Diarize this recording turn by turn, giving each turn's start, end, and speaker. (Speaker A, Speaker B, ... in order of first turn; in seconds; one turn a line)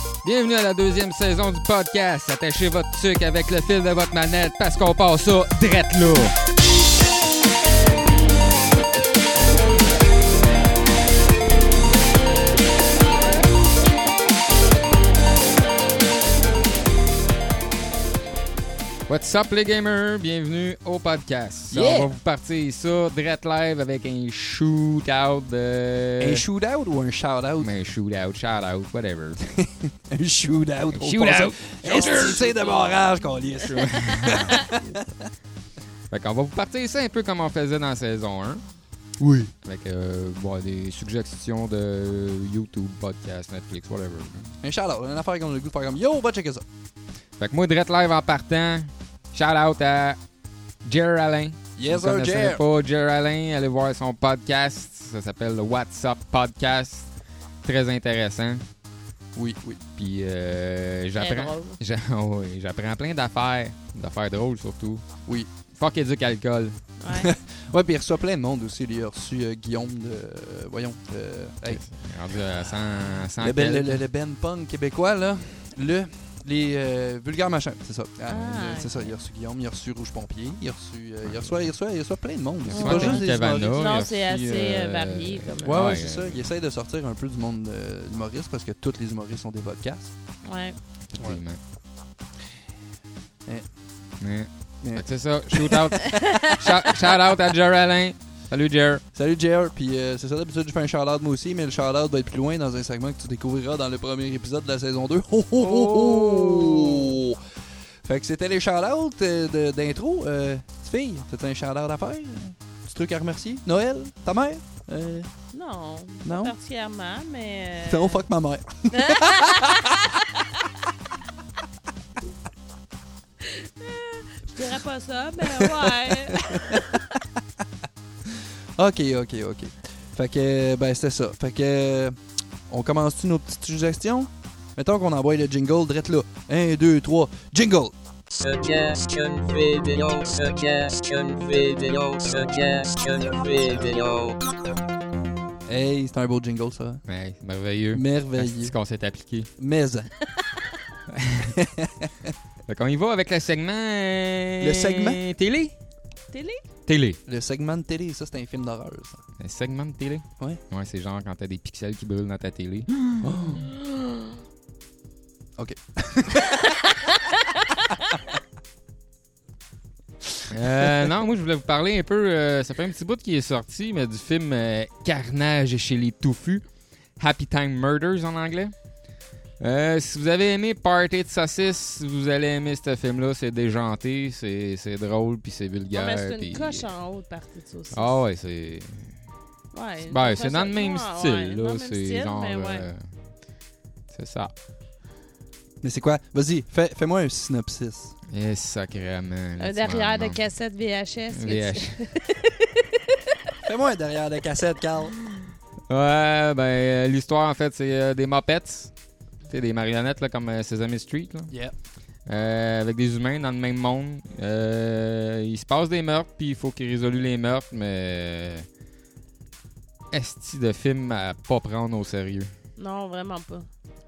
Speaker A: 0.2-6.4
Speaker A: 19.1-26.4
Speaker B: 21.7-22.1
Speaker B: 26.2-27.7
Speaker A: 27.6-29.4
Speaker B: 29.6-35.3
Speaker A: 30.9-32.5
Speaker C: 31.8-33.2
Speaker A: 33.6-34.7
Speaker A: 36.1-38.6
Speaker B: 39.2-39.5
Speaker A: 39.6-44.5
Speaker B: 44.6-46.6
Speaker A: 47.4-50.2
Speaker A: 50.8-57.1
Speaker B: 51.8-52.6
Speaker A: 57.6-58.6
Speaker B: 59.3-59.8
Speaker A: 60.0-65.0
Speaker C: 61.2-61.8
Speaker A: 65.7-66.8
Speaker C: 67.0-67.3
Speaker B: 67.1-71.8
Speaker A: 71.7-74.0
Speaker B: 73.4-83.8
Speaker C: 78.3-79.1
Speaker A: 81.2-81.5
Speaker A: 82.7-86.4
Speaker C: 82.7-86.0
Speaker B: 85.6-90.1
Speaker C: 90.4-90.8
Speaker A: 91.1-91.6
Speaker A: 94.2-99.0
Speaker B: 94.8-96.5
Speaker C: 96.0-96.5
Speaker B: 99.1-107.4
Speaker A: 105.6-107.2
Speaker B: 108.0-115.3
Speaker C: 115.5-118.2
Speaker B: 116.2-116.5
Speaker B: 117.8-119.9
Speaker C: 118.9-120.5
Speaker C: 123.4-126.9
Speaker B: 125.4-127.4
Speaker B: 128.3-132.2
Speaker B: 132.7-137.9
Speaker D: 138.4-144.4
Speaker B: 145.7-147.0
Speaker A: 147.1-149.5
Speaker B: 147.9-148.7
Speaker B: 149.6-150.1
Speaker A: 151.1-151.5
Speaker B: 151.4-152.3
Speaker A: 152.7-155.7
Speaker B: 154.6-155.2
Speaker C: 156.3-156.6
Speaker A: 156.9-157.2
Speaker B: 157.3-159.2
Speaker A: 159.4-163.1
Speaker B: 163.2-163.7
Speaker C: 163.6-164.3
Speaker B: 165.6-166.8
Speaker B: 167.9-168.3
Speaker A: 170.5-176.6
Speaker A: 177.2-178.7
Speaker A: 179.6-186.8
Speaker C: 185.9-188.2
Speaker A: 187.9-189.2
Speaker C: 189.7-192.9
Speaker A: 190.1-193.0
Speaker A: 194.1-194.5
Speaker B: 195.8-198.1
Speaker A: 198.3-200.4
Speaker C: 199.6-203.2
Speaker A: 201.3-202.0
Speaker B: 203.6-205.2
Speaker A: 205.3-208.9
Speaker A: 209.5-211.5
Speaker B: 211.5-211.7
Speaker A: 212.3-218.7
Speaker A: 220.1-222.5
Speaker C: 222.8-223.7